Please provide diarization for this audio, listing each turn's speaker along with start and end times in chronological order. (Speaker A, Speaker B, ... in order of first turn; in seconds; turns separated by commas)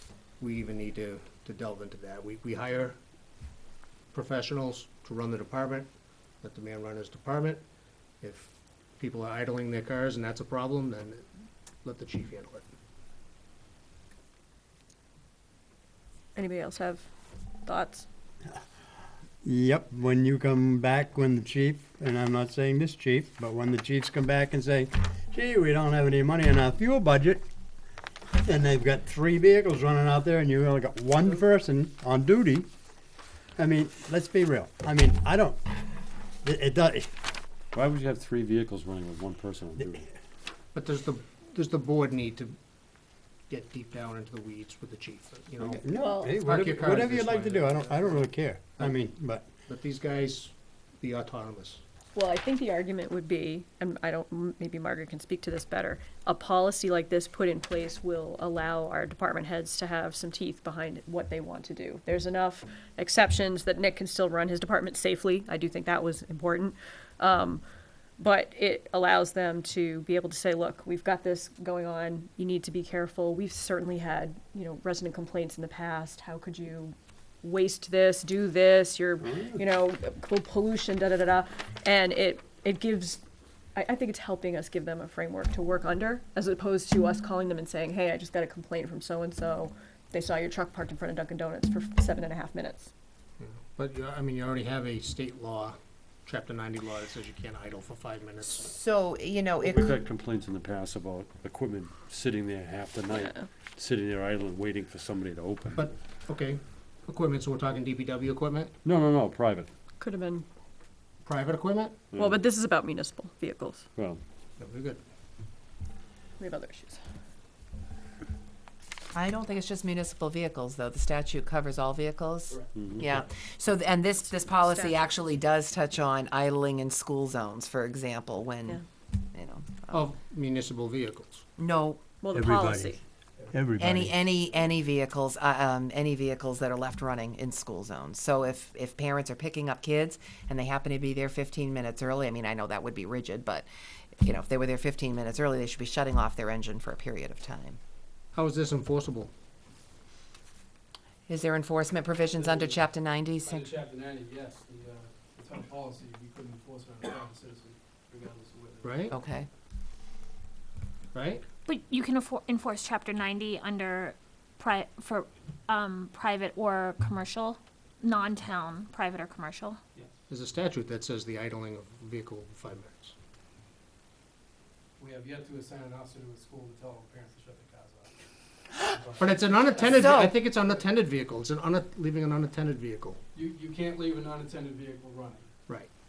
Speaker A: 0.4-3.0, Speaker A: 4.1-5.9, Speaker A: 6.4-7.6, Speaker A: 8.2-11.3, Speaker A: 11.8-12.6, Speaker B: 16.3-17.1, Speaker B: 17.6-18.1, Speaker C: 19.4-27.4, Speaker C: 28.4-32.7, Speaker C: 33.6-35.6, Speaker C: 36.4-37.1, Speaker D: 37.7-40.0, Speaker A: 40.7-42.6, Speaker A: 43.5-49.0, Speaker C: 45.6-49.4, Speaker B: 45.9-46.4, Speaker A: 49.6-51.8, Speaker B: 52.1-67.6, Speaker B: 68.2-83.2, Speaker B: 83.7-92.9, Speaker A: 93.4-98.7, Speaker E: 98.6-100.0, Speaker D: 99.6-105.9, Speaker B: 103.1-103.5, Speaker A: 105.7-108.7, Speaker D: 108.8-109.7, Speaker B: 110.0-110.5, Speaker A: 111.2-112.0, Speaker D: 112.1-112.4, Speaker B: 112.2-113.9, Speaker D: 114.0-114.2, Speaker A: 114.6-115.0, Speaker B: 116.4-117.0, Speaker E: 119.1-128.8, Speaker D: 122.7-123.1, Speaker B: 124.3-125.1, Speaker E: 129.3-130.0, Speaker A: 129.9-131.4, Speaker E: 131.6-132.0, Speaker B: 132.2-133.0, Speaker C: 132.3-133.0, Speaker C: 133.5-134.2, Speaker E: 133.8-143.7, Speaker E: 144.2-147.8, Speaker A: 148.3-149.3, Speaker E: 151.3-153.7, Speaker F: 152.3-152.9, Speaker F: 153.4-159.1, Speaker A: 158.8-159.1, Speaker E: 159.1-159.5, Speaker A: 161.1-161.4, Speaker G: 161.6-169.8, Speaker A: 170.3-173.1, Speaker F: 175.0-178.2, Speaker F: 178.8-180.8, Speaker A: 179.2-183.2, Speaker E: 179.9-180.3, Speaker F: 183.3-185.7